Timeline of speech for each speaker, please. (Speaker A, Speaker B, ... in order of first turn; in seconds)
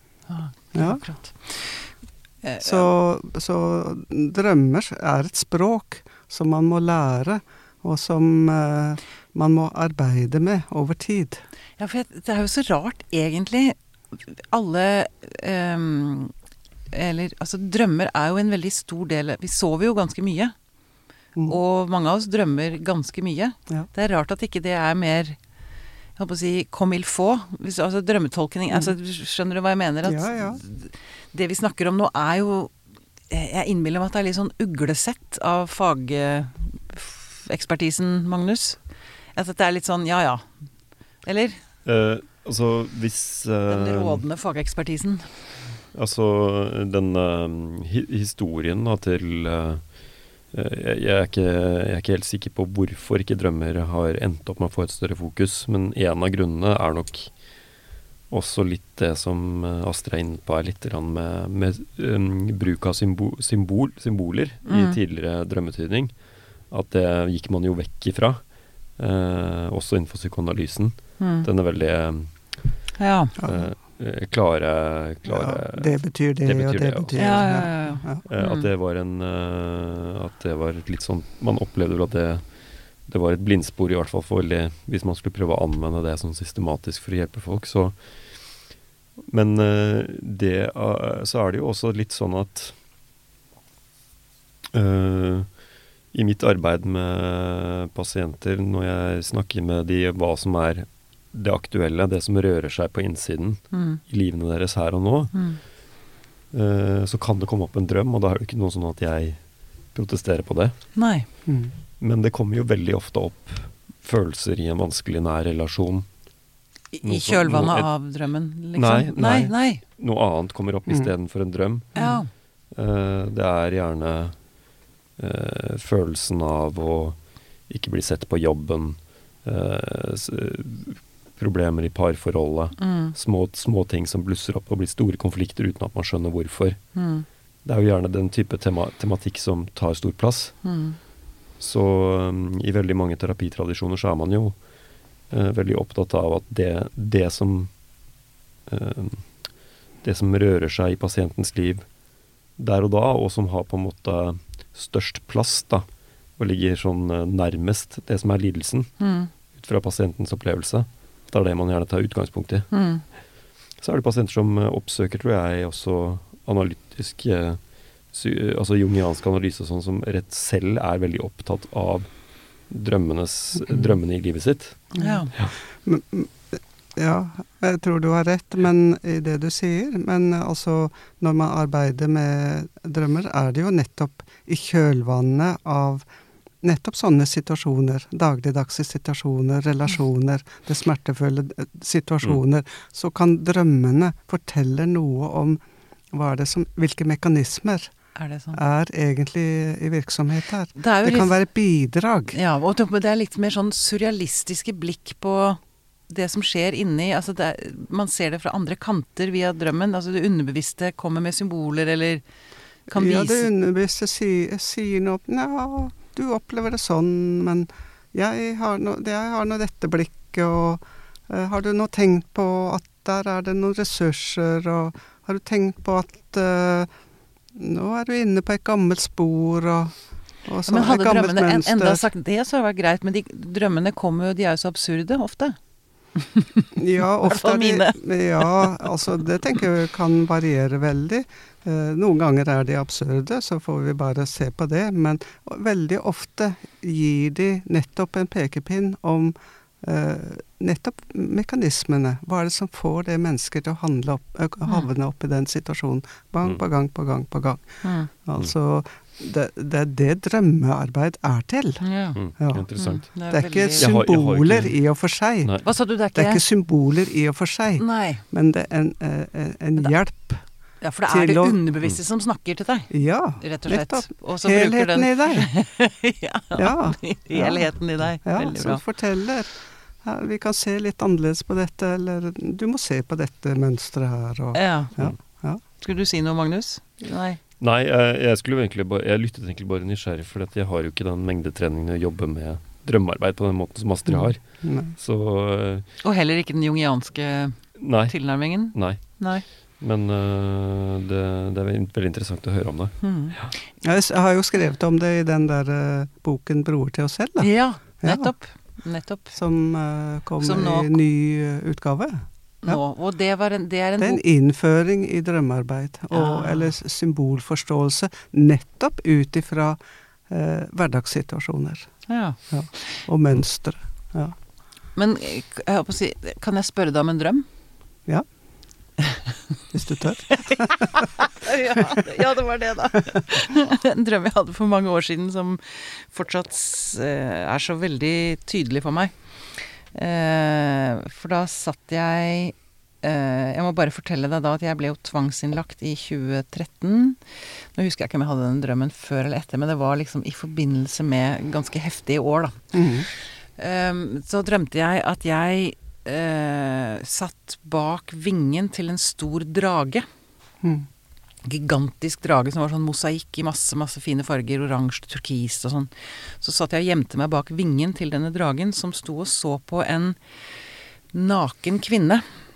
Speaker A: 0.3-2.9, 11.8-16.3, 16.9-20.5, 21.5-25.4, 26.2-32.7, 33.3-38.8, 39.3-40.6, 41.2-41.6, 43.7-45.3, 64.7-65.0, 71.2-71.5, 73.0-73.3, 77.2-78.7, 103.7-104.0, 105.3-105.6, 111.0-111.3, 116.9-119.8, 122.0-122.3, 132.8-133.1, 136.9-137.2, 140.6-141.0, 159.0-159.3, 162.7-163.0, 174.9-175.3, 198.2-198.6, 200.8-201.3, 202.3-212.2, 212.9-213.5, 230.7-235.6, 236.2-236.7, 237.2-239.0, 257.8-258.1, 261.8-262.2, 262.8-263.9, 265.6-266.4, 267.8-268.2, 270.8-278.8, 284.5-284.9, 285.7-287.4, 296.0-299.4, 303.0-303.4, 307.4-309.4, 310.4-311.0, 312.6-314.2, 316.1-316.7, 322.1-323.0, 324.9-327.4, 330.4-360.1, 361.4-370.2, 371.1-372.2
Speaker B: 0.7-1.0, 2.6-11.4, 30.0-30.6, 75.3-78.2, 111.5-111.7, 175.0-186.1, 186.6-195.6, 196.1-197.9, 198.5-202.4, 212.9-226.9, 227.5-229.9, 230.4-232.0, 236.8-261.8, 262.4-265.5, 266.1-270.4, 271.1-271.6, 272.9-275.5, 276.5-285.6, 294.1-294.9, 303.8-308.3, 309.3-312.8, 314.0-319.8, 320.3-324.3, 329.7-331.0, 352.7-353.1, 360.6-360.9
Speaker C: 41.8-44.2, 45.9-49.8, 50.5-57.3, 58.3-66.1, 66.7-68.4, 69.0-72.3, 73.4-82.4, 83.0-88.5, 89.3-92.8, 94.7-95.6, 96.1-105.5, 106.5-109.4, 109.9-110.8, 112.0-116.1, 117.0-117.9, 118.7-122.1, 122.7-124.4, 125.2-136.8, 137.6-140.6, 141.6-144.6, 145.3-147.7, 148.7-149.3, 150.0-151.8, 152.6-155.8, 156.4-158.9, 159.5-162.7, 163.8-172.1, 172.7-175.5, 262.1-263.1, 263.7-264.7, 287.6-295.9, 297.8-303.5